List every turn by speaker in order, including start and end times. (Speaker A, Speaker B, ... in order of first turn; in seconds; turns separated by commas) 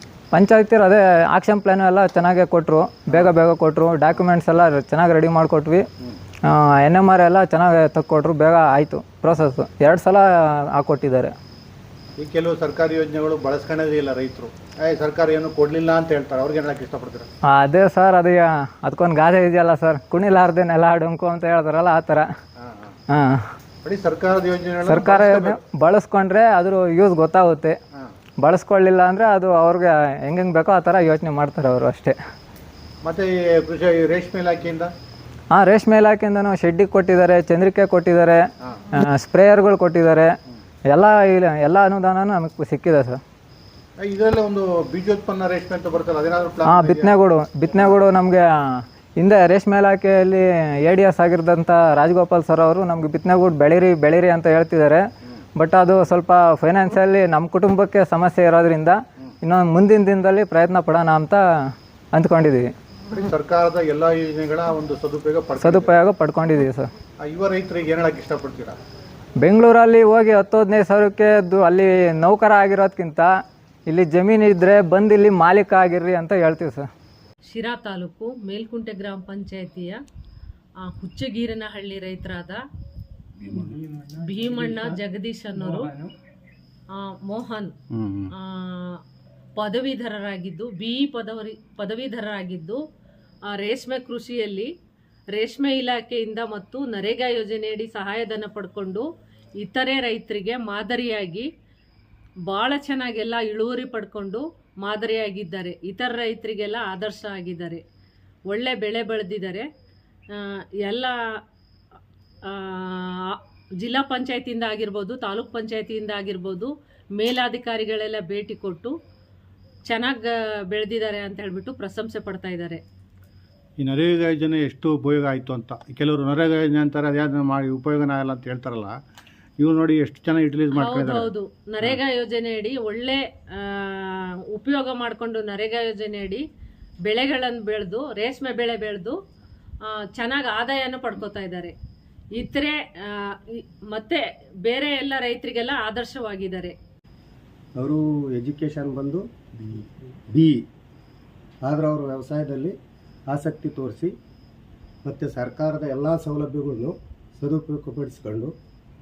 Speaker A: 0.3-5.8, Speaker A: 6.4-11.3, Speaker B: 12.2-17.3, Speaker A: 17.4-22.3, Speaker B: 22.6-22.9, Speaker A: 23.1-23.4, Speaker B: 23.8-25.6, Speaker A: 24.9-27.8, Speaker A: 28.4-32.2, Speaker B: 33.0-34.9, Speaker A: 35.5-40.3, Speaker A: 40.9-43.2, Speaker B: 44.0-47.1, Speaker A: 46.7-55.0, Speaker A: 55.6-62.7, Speaker B: 63.1-65.9, Speaker A: 65.6-66.9, Speaker B: 67.2-68.8, Speaker A: 69.4-73.3, Speaker A: 73.9-76.8, Speaker C: 77.5-80.0, Speaker C: 80.8-82.6, Speaker C: 83.4-86.0, Speaker C: 86.9-87.7, Speaker B: 87.9-88.3, Speaker C: 88.4-89.0, Speaker C: 89.6-92.8, Speaker C: 93.5-94.7, Speaker C: 95.3-99.0, Speaker C: 99.6-101.5, Speaker C: 102.5-107.8, Speaker C: 108.5-109.7, Speaker C: 110.4-111.1, Speaker C: 112.5-118.9, Speaker C: 119.8-122.8, Speaker B: 123.8-129.0, Speaker B: 129.6-132.0, Speaker C: 130.7-136.4, Speaker C: 137.1-139.2, Speaker C: 140.1-141.7, Speaker C: 142.3-146.7, Speaker D: 147.8-150.6, Speaker D: 151.6-152.7, Speaker D: 153.3-154.1, Speaker D: 155.0-158.5